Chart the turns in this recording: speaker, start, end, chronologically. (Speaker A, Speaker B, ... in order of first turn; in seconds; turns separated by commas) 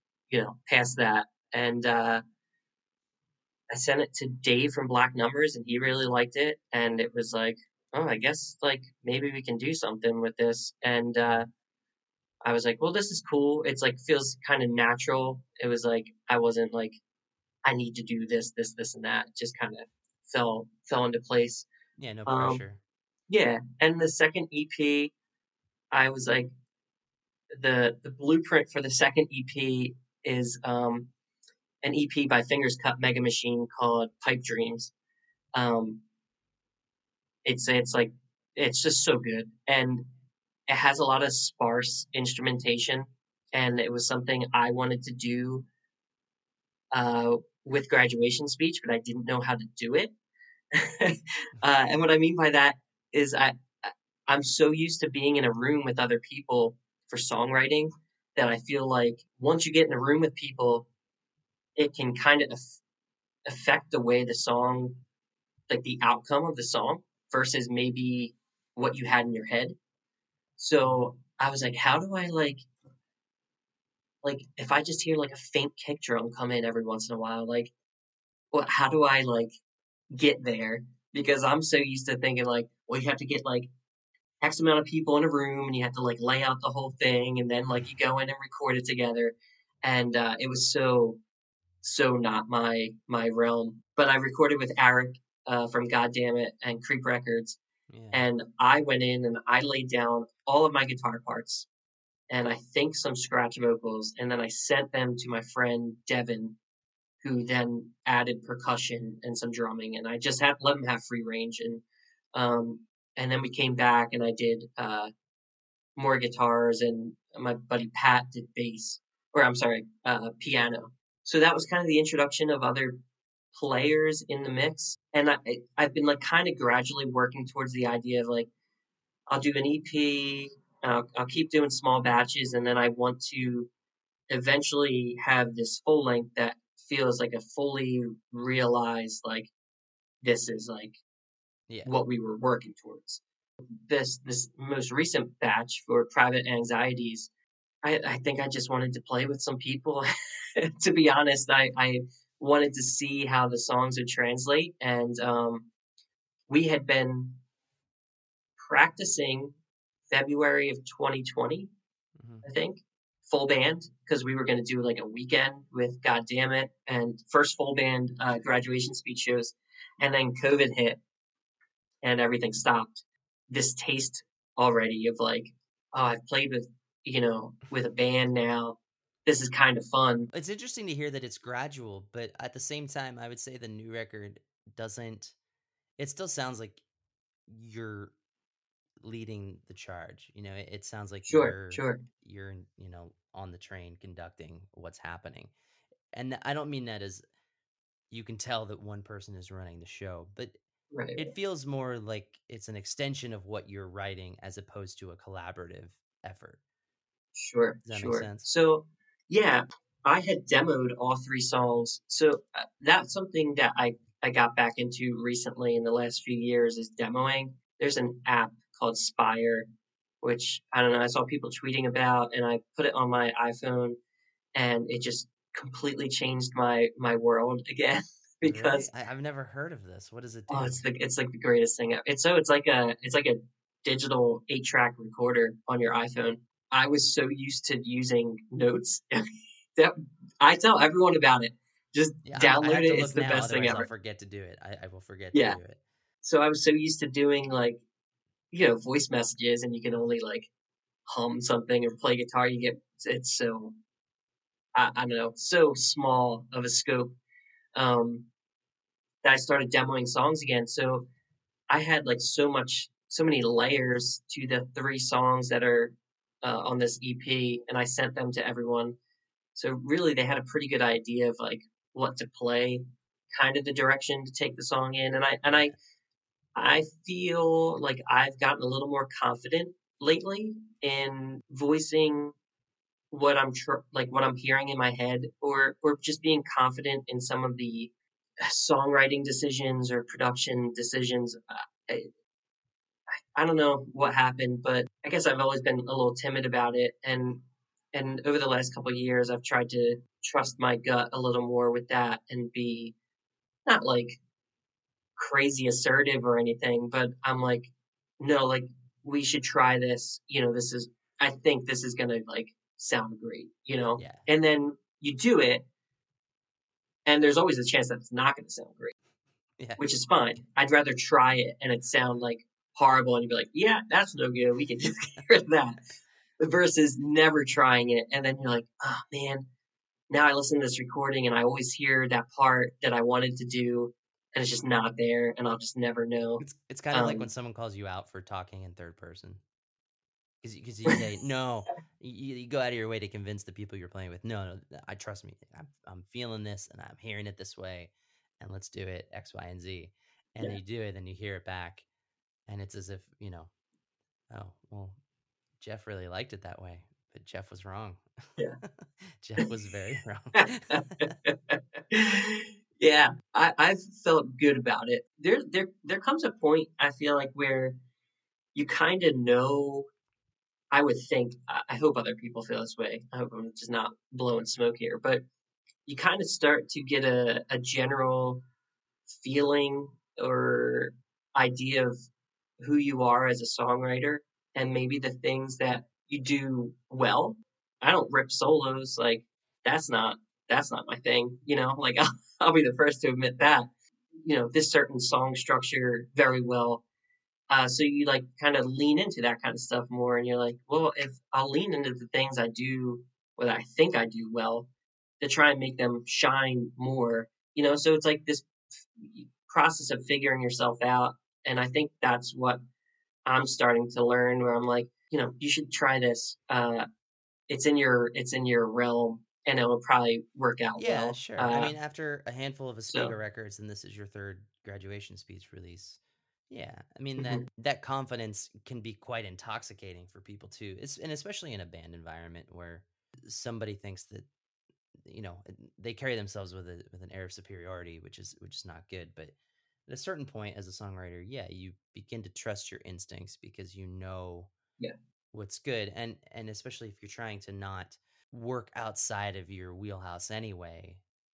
Speaker A: 0.3-2.2, Speaker A: 3.7-11.5, Speaker A: 12.4-17.0, Speaker A: 17.6-21.7, Speaker B: 22.0-22.8, Speaker A: 22.3-22.6, Speaker A: 23.3-25.1, Speaker A: 25.9-26.5, Speaker A: 27.5-31.1, Speaker A: 31.8-34.9, Speaker A: 35.5-36.0, Speaker A: 37.5-40.0, Speaker A: 40.7-45.6, Speaker A: 46.9-50.1, Speaker A: 50.8-60.9, Speaker A: 61.8-62.8, Speaker A: 63.5-65.0, Speaker A: 65.7-69.8, Speaker A: 70.6-72.6, Speaker A: 74.2-77.7, Speaker A: 78.5-79.5, Speaker A: 80.1-83.7, Speaker A: 84.4-91.2, Speaker A: 91.8-97.6, Speaker B: 97.9-98.3, Speaker A: 98.1-101.7, Speaker A: 102.3-106.6, Speaker A: 107.2-111.8, Speaker A: 112.3-115.1, Speaker A: 116.0-122.9, Speaker A: 123.5-128.5, Speaker A: 129.3-133.7, Speaker A: 134.3-139.5, Speaker A: 140.2-141.0, Speaker B: 141.7-141.9, Speaker A: 141.8-143.2, Speaker A: 143.8-147.3, Speaker A: 147.8-150.1, Speaker A: 150.6-155.7, Speaker A: 156.5-157.4, Speaker A: 158.6-159.6, Speaker A: 160.1-161.7, Speaker B: 162.2-162.4, Speaker A: 162.4-171.0, Speaker A: 172.0-180.3, Speaker B: 180.3-185.3, Speaker B: 186.0-186.8, Speaker B: 187.5-188.1, Speaker B: 189.0-195.5, Speaker A: 191.3-192.0, Speaker B: 196.1-197.2, Speaker B: 198.1-200.5, Speaker A: 200.9-201.3, Speaker B: 201.2-206.6, Speaker A: 207.3-219.7, Speaker B: 207.8-208.5, Speaker A: 220.2-224.0, Speaker A: 224.6-228.9, Speaker B: 228.4-230.8, Speaker A: 230.5-239.2, Speaker A: 239.8-243.9, Speaker B: 242.2-245.8, Speaker A: 245.3-245.6, Speaker A: 246.2-247.8, Speaker A: 248.5-250.5, Speaker A: 251.1-253.8, Speaker A: 254.8-257.1, Speaker A: 257.8-258.3, Speaker A: 259.2-261.1, Speaker A: 261.7-269.0, Speaker A: 269.6-275.8, Speaker B: 275.5-275.8, Speaker A: 276.6-282.3, Speaker A: 283.1-287.9, Speaker A: 288.4-292.1, Speaker A: 293.4-297.4, Speaker A: 297.9-302.9, Speaker A: 303.6-304.2, Speaker A: 305.2-315.6, Speaker B: 314.0-314.3, Speaker A: 317.1-318.9, Speaker B: 319.6-319.9, Speaker A: 319.8-325.8, Speaker A: 326.4-329.4, Speaker A: 330.1-337.3, Speaker B: 336.4-339.4, Speaker B: 340.4-351.9, Speaker B: 352.5-353.5, Speaker B: 354.3-355.0, Speaker B: 355.6-361.1, Speaker A: 360.4-367.8, Speaker A: 368.5-369.9, Speaker A: 370.7-375.2, Speaker A: 375.9-378.4, Speaker A: 379.1-381.9, Speaker A: 382.6-393.7, Speaker A: 394.2-396.8, Speaker A: 397.5-404.7, Speaker A: 405.2-412.6, Speaker A: 413.3-416.9, Speaker A: 417.5-421.7, Speaker B: 420.8-426.0, Speaker A: 422.9-423.1, Speaker B: 426.5-434.3, Speaker B: 435.1-439.3, Speaker B: 439.9-444.5, Speaker B: 445.3-451.0